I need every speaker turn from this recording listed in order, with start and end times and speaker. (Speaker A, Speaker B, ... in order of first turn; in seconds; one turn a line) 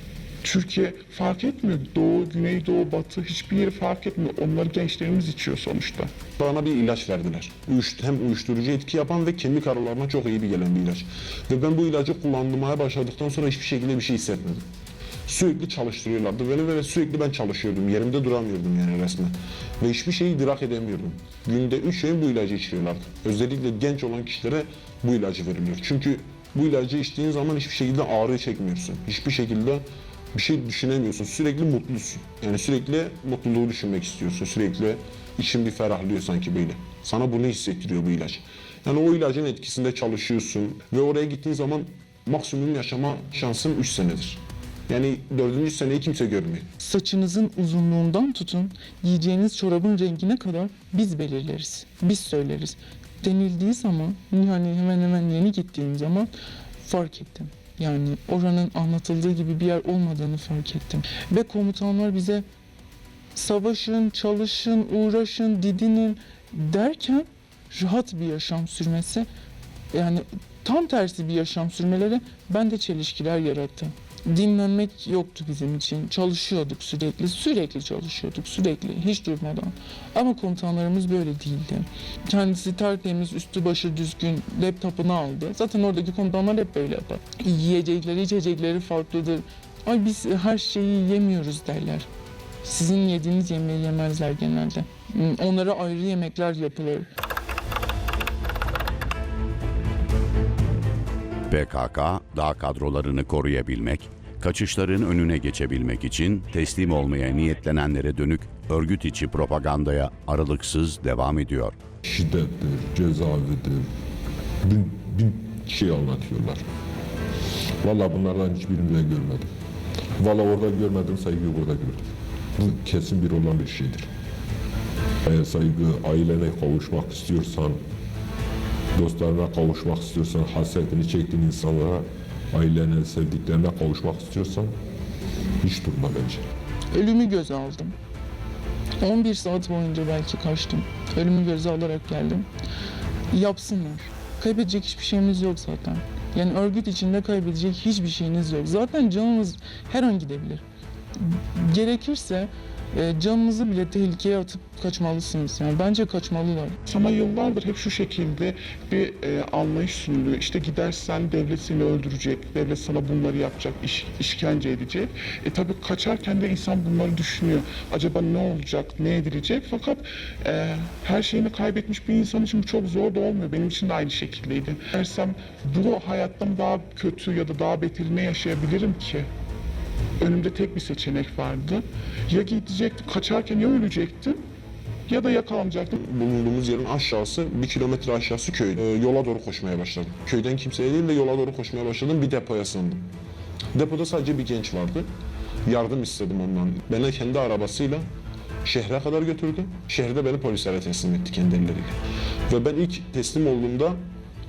Speaker A: 0.4-6.1
Speaker B: 6.4-14.7
Speaker B: 15.3-46.7
Speaker C: 46.8-62.4
Speaker C: 63.3-69.3
Speaker C: 69.9-92.1
Speaker C: 92.6-97.1
Speaker D: 101.5-111.8
Speaker E: 112.0-113.9
Speaker E: 114.6-116.6
Speaker E: 117.8-119.5
Speaker E: 120.2-124.1
Speaker E: 125.2-127.8
Speaker E: 128.9-134.7
Speaker E: 135.6-136.4
Speaker C: 136.9-137.9
Speaker C: 139.0-142.5
Speaker C: 143.3-150.6
Speaker C: 151.2-156.8
Speaker A: 156.9-179.3
Speaker A: 180.2-184.4
Speaker A: 185.1-185.9
Speaker B: 185.9-193.1
Speaker B: 193.7-195.1
Speaker B: 195.7-198.1
Speaker B: 198.6-204.0